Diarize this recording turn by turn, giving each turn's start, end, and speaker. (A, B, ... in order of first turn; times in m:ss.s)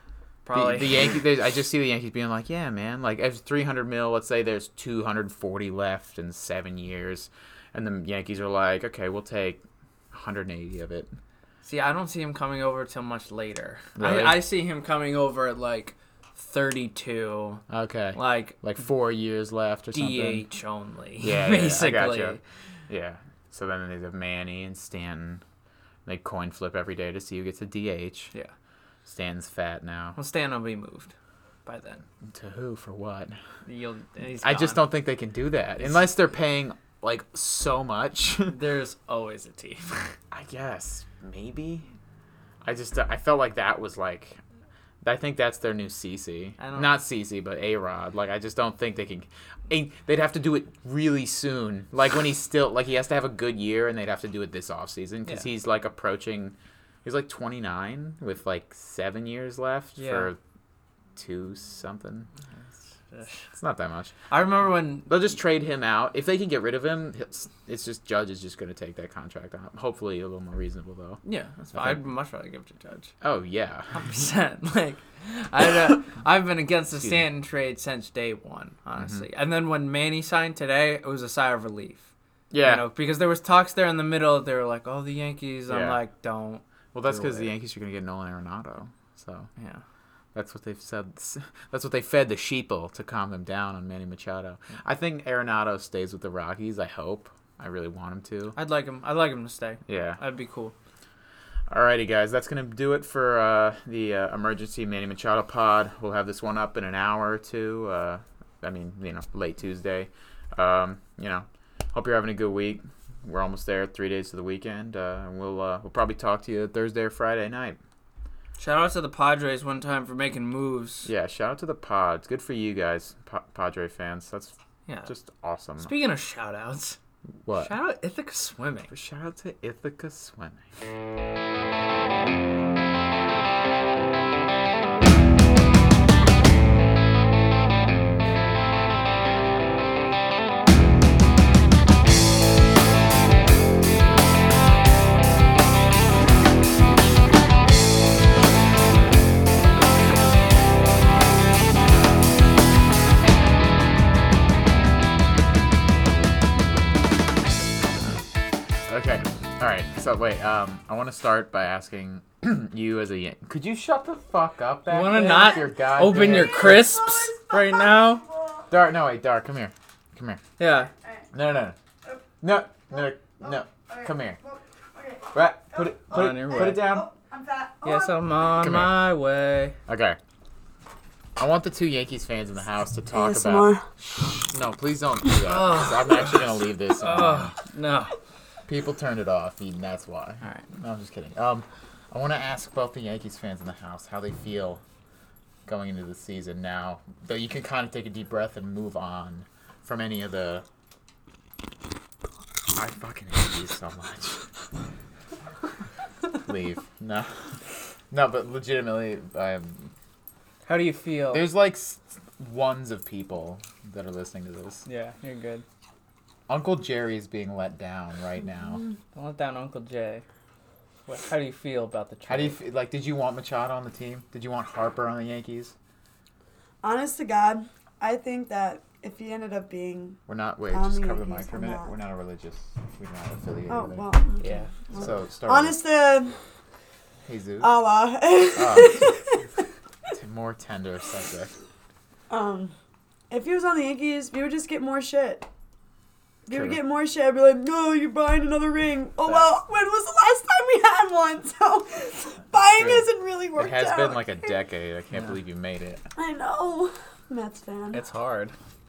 0:00.4-0:01.2 A
0:00.5-0:11.2 B
0:11.6-0:17.6 A
0:14.0-0:14.4 B
0:17.7-0:20.4 B
0:18.1-0:18.6 A
0:19.9-0:22.4 A
0:21.2-0:22.4 B
0:22.9-0:25.4 B
0:26.0-0:28.3 B
0:29.0-0:30.2 B
0:30.2-0:31.1 A
0:31.6-0:32.0 A
0:32.2-0:33.4 B
0:33.6-0:34.8 A
0:34.4-0:38.6 B
0:38.5-0:40.1 A
0:40.3-0:41.9 B
0:42.6-0:44.4 B
0:45.0-1:00.4 B
0:46.6-0:46.9 A
1:00.0-1:00.3 A
1:01.2-1:02.3 B
1:03.1-1:03.5 A
1:03.5-1:04.1 B
1:04.3-1:05.1 A
1:05.1-1:11.2 B
1:11.2-1:13.1 A
1:11.7-1:12.0 B
1:13.2-1:13.9 B
1:13.9-1:22.1 A
1:19.0-1:19.2 B
1:22.5-1:22.8 B
1:22.6-1:27.5 A
1:25.7-1:26.0 B
1:26.9-1:29.5 B
1:29.6-1:29.8 A
1:30.3-1:38.6 B
1:38.5-1:40.7 A
1:39.9-1:40.2 B
1:41.7-1:57.8 B
1:58.6-2:01.1 A
2:01.0-2:05.9 B
2:05.8-2:07.0 A
2:07.4-2:07.7 B
2:07.5-2:08.9 A
2:08.9-2:10.7 B
2:38.9-2:46.9 B
2:44.9-2:48.2 A
2:46.3-2:48.7 C
2:48.7-2:50.4 B
2:50.6-2:50.9 A
2:51.3-2:51.8 B
2:52.4-2:54.4 B
2:53.2-2:58.4 C
2:55.3-2:57.1 B
2:56.1-2:56.9 A
2:57.8-2:59.8 A
2:58.6-2:59.0 B
2:59.9-3:00.2 B
3:01.4-3:07.5 B
3:03.1-3:03.9 C
3:05.4-3:08.1 A
3:08.7-3:14.8 B
3:15.6-3:20.6 B
3:22.7-3:24.4 B
3:26.4-3:27.3 B
3:28.1-3:29.9 B
3:30.6-3:31.5 A
3:31.3-3:34.8 B
3:34.8-3:35.6 A
3:36.5-3:38.8 B
3:39.1-3:40.2 A
3:41.1-3:42.6 A
3:42.3-3:45.7 B
3:46.8-3:51.9 C
3:50.3-3:54.1 B
3:53.7-3:56.4 C
3:54.4-3:54.7 A
3:55.0-3:55.8 B
3:57.2-3:57.7 B
3:57.6-3:59.5 C
3:58.5-3:59.2 B
4:00.1-4:01.5 B
4:02.3-4:02.7 C
4:03.3-4:05.5 C
4:06.5-4:14.5 C
4:06.5-4:06.8 B
4:12.7-4:16.0 B
4:16.2-4:18.0 C
4:17.9-4:18.5 A